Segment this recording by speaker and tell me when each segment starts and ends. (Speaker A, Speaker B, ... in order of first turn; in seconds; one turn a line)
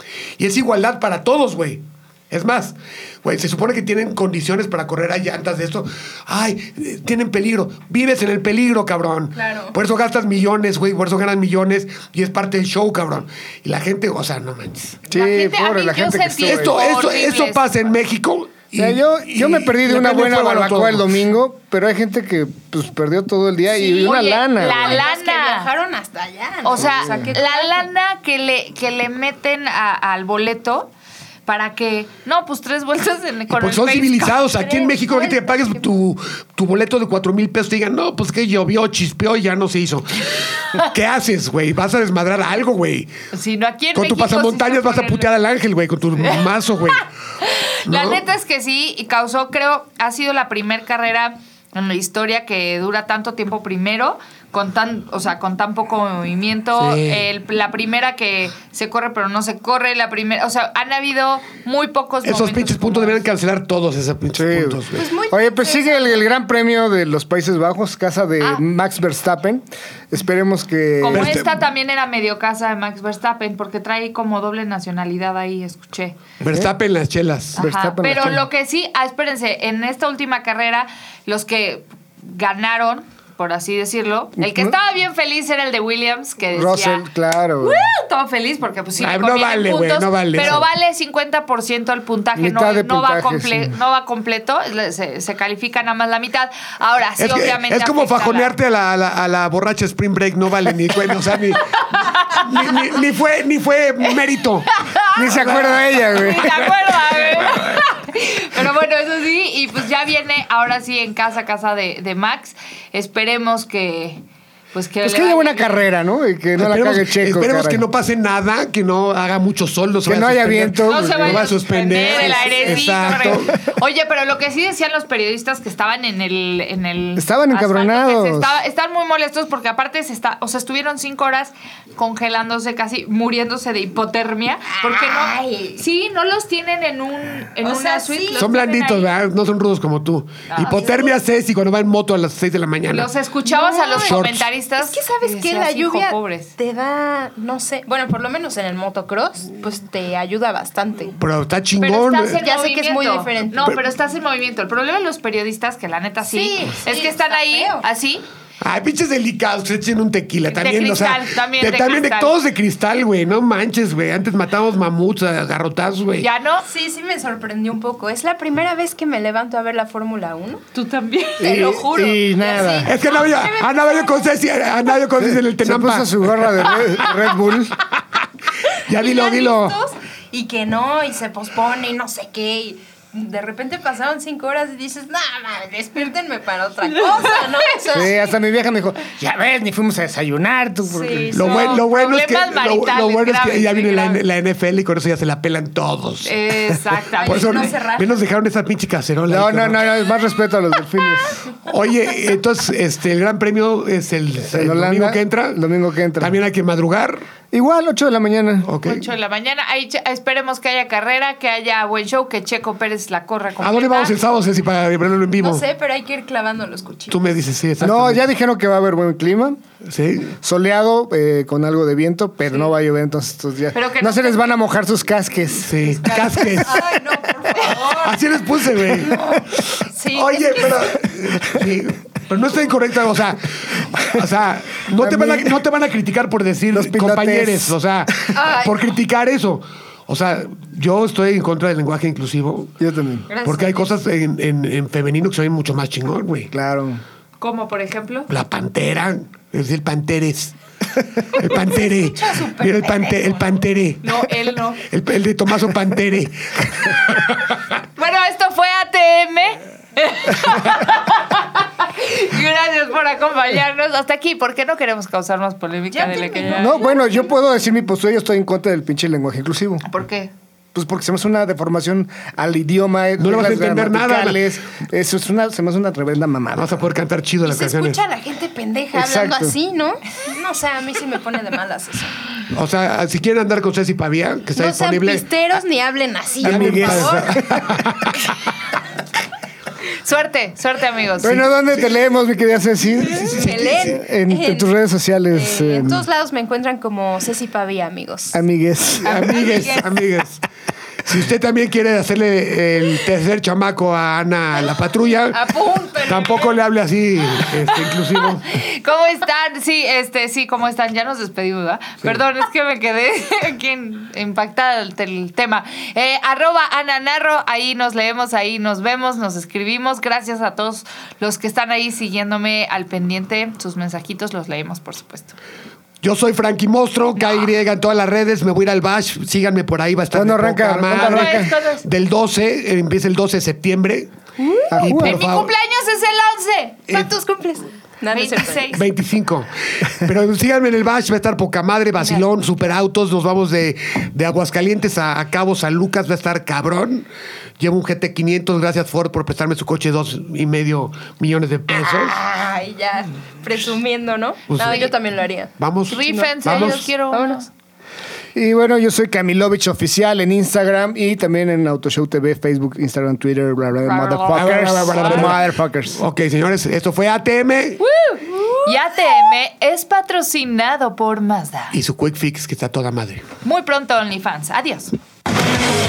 Speaker A: 0.4-15.0
Speaker B: 9.3-9.8
Speaker C: 15.1-16.8
Speaker D: 15.1-17.6
Speaker A: 16.4-21.1
Speaker C: 18.7-25.0
Speaker D: 23.7-25.7
Speaker B: 24.1-27.9
Speaker D: 26.6-30.9
Speaker C: 26.8-27.3
Speaker D: 31.4-34.4
Speaker A: 33.5-43.1
Speaker B: 34.5-35.8
Speaker D: 43.3-45.3
Speaker A: 43.9-47.1
Speaker D: 47.0-63.2
Speaker A: 47.9-48.2
Speaker A: 56.8-57.3
Speaker A: 62.2-65.0
Speaker C: 64.3-71.3
Speaker B: 64.9-66.2
Speaker D: 71.0-76.2
Speaker A: 71.1-71.6
Speaker A: 76.4-77.6
Speaker D: 77.5-87.0
Speaker C: 77.6-78.4
Speaker C: 84.4-84.7
Speaker C: 86.5-87.8
Speaker D: 87.6-98.5
Speaker A: 89.0-90.7
Speaker C: 92.3-93.7
Speaker A: 97.2-104.8
Speaker D: 101.9-102.5
Speaker D: 104.7-114.2
Speaker C: 105.1-106.7
Speaker A: 107.3-107.8
Speaker D: 114.7-115.8
Speaker C: 115.0-117.8
Speaker A: 116.6-123.5
Speaker C: 120.0-121.5
Speaker D: 120.8-139.1
Speaker B: 122.1-122.8
Speaker C: 123.0-123.5
Speaker C: 127.2-128.6
Speaker B: 134.7-135.8
Speaker B: 137.6-138.5
Speaker A: 138.3-143.1
Speaker D: 140.5-141.1
Speaker D: 142.9-146.5
Speaker B: 143.4-144.2
Speaker A: 144.0-144.5
Speaker B: 144.8-151.2
Speaker A: 151.2-152.4
Speaker D: 151.8-158.2
Speaker B: 152.4-153.8
Speaker B: 156.2-157.8
Speaker A: 158.6-166.3
Speaker D: 160.5-162.3
Speaker D: 166.2-166.6
Speaker B: 166.6-170.7
Speaker D: 170.7-171.9
Speaker B: 171.4-174.4
Speaker C: 171.4-172.9
Speaker A: 172.8-177.1
Speaker C: 175.2-177.8
Speaker A: 177.8-179.8
Speaker B: 178.8-188.2
Speaker C: 187.9-191.4
Speaker B: 190.8-191.8
Speaker A: 191.3-200.1
Speaker D: 191.4-194.2
Speaker D: 196.2-197.8
Speaker B: 197.2-198.2
Speaker C: 199.3-201.4
Speaker A: 201.6-205.6
Speaker C: 204.5-206.4
Speaker A: 206.2-207.3
Speaker C: 207.5-208.7
Speaker A: 208.6-209.0
Speaker D: 208.8-214.1
Speaker A: 213.6-215.6
Speaker B: 215.3-217.2
Speaker A: 217.1-218.2
Speaker C: 217.8-219.6
Speaker A: 219.8-220.3
Speaker C: 220.4-225.9
Speaker D: 223.7-224.6
Speaker A: 225.6-226.9
Speaker D: 226.1-228.1
Speaker B: 226.2-228.0
Speaker A: 227.6-242.7
Speaker B: 229.1-230.7
Speaker C: 234.9-235.6
Speaker C: 236.7-237.8
Speaker B: 238.3-238.8
Speaker C: 242.8-243.3
Speaker B: 243.3-243.9
Speaker A: 243.4-246.5
Speaker C: 246.5-247.0
Speaker D: 247.4-248.3
Speaker A: 248.3-250.5
Speaker A: 251.2-254.3
Speaker B: 251.5-253.5
Speaker D: 254.0-254.8
Speaker A: 254.8-257.6
Speaker D: 258.0-266.8
Speaker B: 265.9-267.3
Speaker C: 266.6-269.8
Speaker D: 269.9-270.3
Speaker C: 270.7-276.8
Speaker A: 273.2-274.5
Speaker A: 276.5-278.0
Speaker B: 277.4-282.1
Speaker C: 278.9-279.6
Speaker A: 282.5-285.3
Speaker B: 284.5-287.8
Speaker C: 286.4-287.6
Speaker A: 286.4-288.3
Speaker D: 290.0-291.4
Speaker C: 291.2-296.0
Speaker A: 291.2-291.9
Speaker A: 293.0-293.9
Speaker B: 293.3-294.7
Speaker B: 295.3-298.4
Speaker C: 298.3-299.2
Speaker A: 299.0-300.4
Speaker D: 299.0-299.9
Speaker A: 301.0-308.4
Speaker B: 305.3-306.6
Speaker D: 308.4-325.4
Speaker A: 326.0-334.1
Speaker D: 327.1-327.5
Speaker C: 330.1-331.5
Speaker D: 330.9-331.8
Speaker B: 334.4-334.8
Speaker C: 334.7-335.2
Speaker A: 334.8-335.5
Speaker D: 334.9-336.9
Speaker B: 336.9-338.8
Speaker D: 338.1-338.9
Speaker A: 338.7-347.1
Speaker A: 347.6-352.2
Speaker B: 351.7-357.5
Speaker A: 354.5-354.9
Speaker A: 355.6-356.8
Speaker D: 355.9-357.5
Speaker C: 358.3-366.0
Speaker D: 363.8-365.4
Speaker A: 364.3-367.8
Speaker D: 367.8-371.8
Speaker A: 371.7-373.2
Speaker D: 373.4-374.9